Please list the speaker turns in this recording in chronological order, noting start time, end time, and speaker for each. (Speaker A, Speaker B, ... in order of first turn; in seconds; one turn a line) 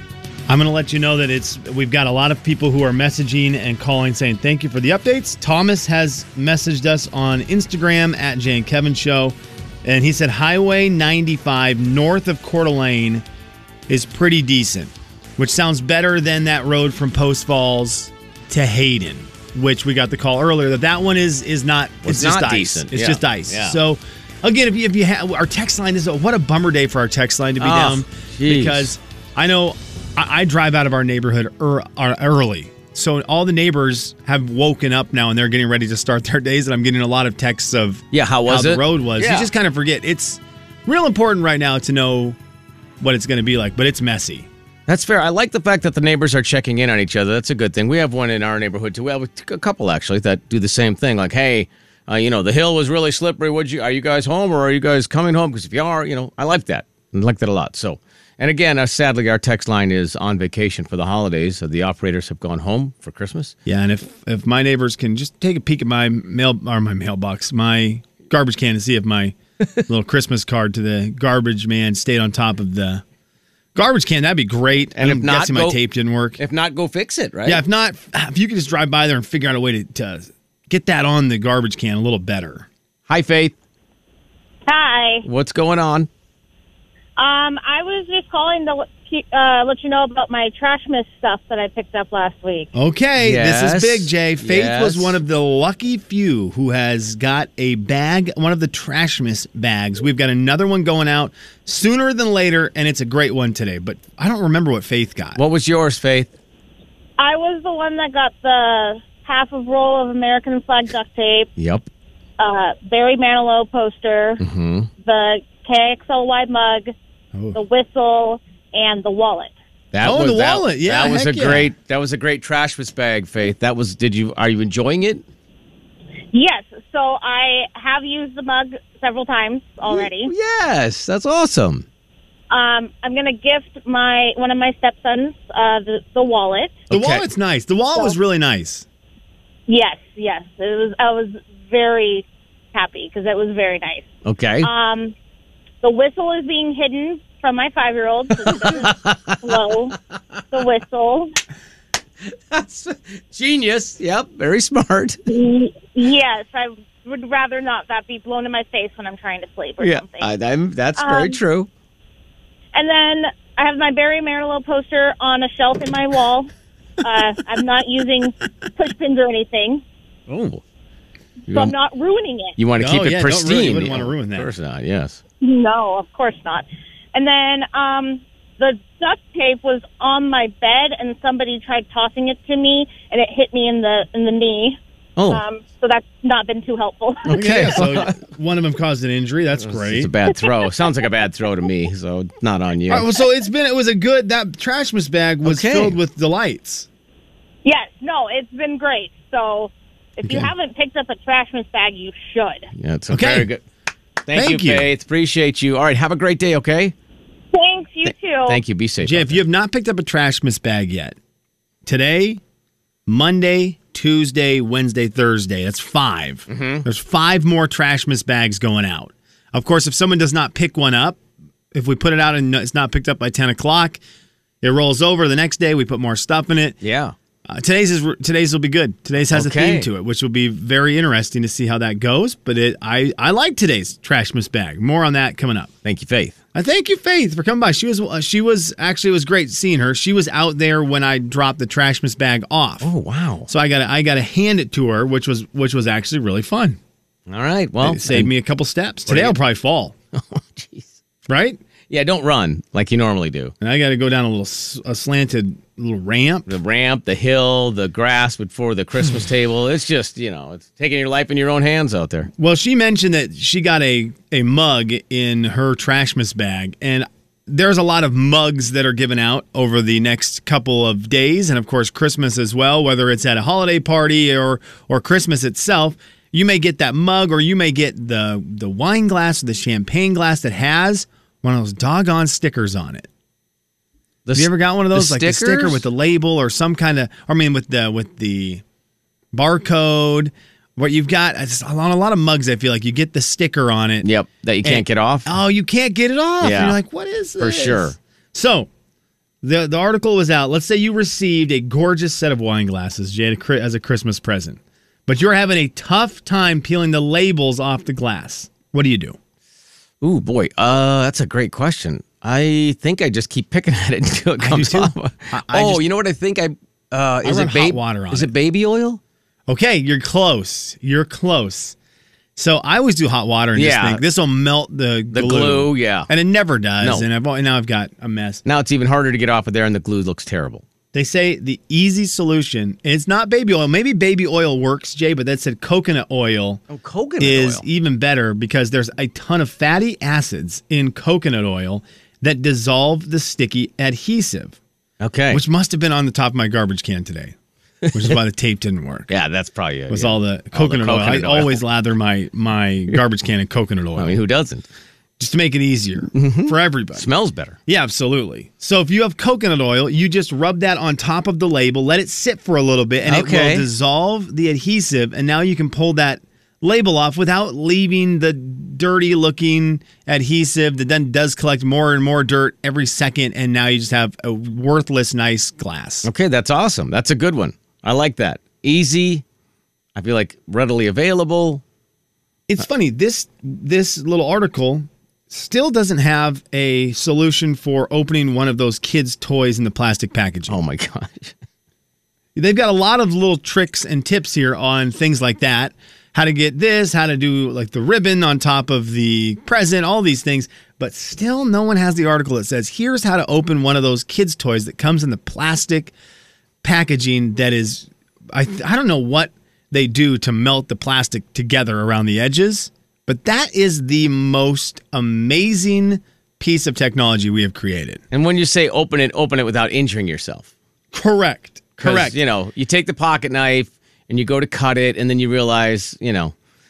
Speaker A: 0.5-13.2
Speaker A: 13.9-42.4
Speaker B: 22.0-23.8
Speaker B: 27.6-28.9
Speaker B: 38.1-39.5
Speaker A: 43.0-44.5
Speaker B: 44.9-63.5
Speaker A: 63.7-69.3
Speaker A: 69.9-73.0
Speaker A: 73.8-76.4
Speaker B: 75.0-75.8
Speaker B: 76.4-77.6
Speaker A: 77.5-82.7
Speaker B: 83.1-83.5
Speaker C: 84.7-85.2
Speaker B: 85.2-86.1
Speaker C: 87.2-92.7
Speaker A: 92.7-105.4
Speaker B: 93.2-95.2
Speaker B: 105.3-106.3
Speaker C: 107.2-111.5
Speaker B: 111.6-111.9
Speaker C: 112.4-114.4
Speaker B: 114.4-114.9
Speaker C: 115.0-116.9
Speaker C: 117.5-119.5
Speaker B: 119.9-125.2
Speaker A: 120.0-121.7
Speaker C: 126.3-130.3
Speaker B: 129.8-131.9
Speaker C: 132.5-136.9
Speaker B: 136.9-137.2
Speaker A: 136.9-138.8
Speaker C: 139.7-144.1
Speaker B: 144.2-144.7
Speaker C: 144.6-145.1
Speaker C: 145.8-150.0
Speaker B: 148.4-149.6
Speaker C: 150.5-151.3
Speaker B: 152.3-155.2
Speaker C: 155.3-160.3
Speaker B: 159.8-161.7
Speaker C: 161.0-161.4
Speaker C: 162.7-166.5
Speaker C: 167.0-169.8
Speaker B: 170.3-170.6
Speaker B: 171.5-171.8
Speaker C: 171.5-172.6
Speaker B: 172.6-175.2
Speaker A: 172.8-174.5
Speaker C: 175.4-187.3
Speaker B: 185.2-185.4
Speaker B: 187.3-188.2
Speaker A: 187.3-190.1
Speaker B: 189.6-193.1
Speaker A: 192.9-196.9
Speaker B: 195.4-196.0
Speaker C: 197.7-202.7
Speaker A: 200.2-200.5
Speaker B: 202.8-203.6
Speaker A: 203.1-203.5
Speaker B: 204.2-206.9
Speaker A: 204.3-204.9
Speaker C: 207.5-208.6
Speaker B: 208.1-209.4
Speaker A: 209.0-211.2
Speaker A: 211.8-212.4
Speaker A: 213.1-221.2
Speaker B: 216.5-216.8
Speaker A: 221.7-224.0
Speaker A: 224.6-226.8
Speaker B: 226.8-227.2
Speaker A: 227.5-235.7
Speaker B: 229.3-229.9
Speaker B: 235.8-236.4
Speaker A: 236.5-242.9
Speaker B: 242.8-243.5
Speaker A: 243.5-246.8
Speaker B: 247.3-248.3
Speaker A: 247.8-249.9
Speaker B: 249.1-249.4
Speaker B: 250.1-250.9
Speaker A: 251.3-251.6
Speaker B: 251.9-253.5
Speaker A: 253.6-256.5
Speaker B: 256.5-262.3
Speaker A: 262.4-283.1
Speaker B: 284.3-285.8
Speaker A: 284.4-288.6
Speaker A: 289.3-294.1
Speaker B: 294.0-295.3
Speaker A: 294.6-298.7
Speaker B: 296.4-296.8
Speaker B: 297.4-298.0
Speaker A: 299.4-309.2
Speaker B: 310.0-319.0
Speaker A: 314.4-315.8
Speaker A: 317.2-318.3
Speaker A: 319.5-321.8
Speaker A: 322.4-328.4
Speaker B: 323.6-324.0
Speaker B: 325.1-326.1
Speaker B: 326.8-327.1
Speaker B: 328.4-330.6
Speaker A: 330.9-336.6
Speaker B: 336.7-337.6
Speaker A: 337.2-344.6
Speaker B: 345.0-345.4
Speaker A: 345.3-347.4
Speaker A: 347.9-349.1
Speaker B: 349.1-351.6
Speaker A: 349.9-354.2
Speaker B: 354.0-354.7
Speaker A: 355.2-357.1
Speaker B: 356.1-357.6
Speaker A: 357.7-376.1
Speaker B: 363.1-363.7
Speaker B: 376.0-379.2
Speaker B: 380.0-381.6
Speaker A: 382.5-390.6
Speaker B: 390.5-391.3
Speaker A: 392.4-405.9
Speaker A: 406.6-418.0
Speaker B: 418.1-420.5
Speaker A: 420.9-422.2
Speaker B: 421.8-426.3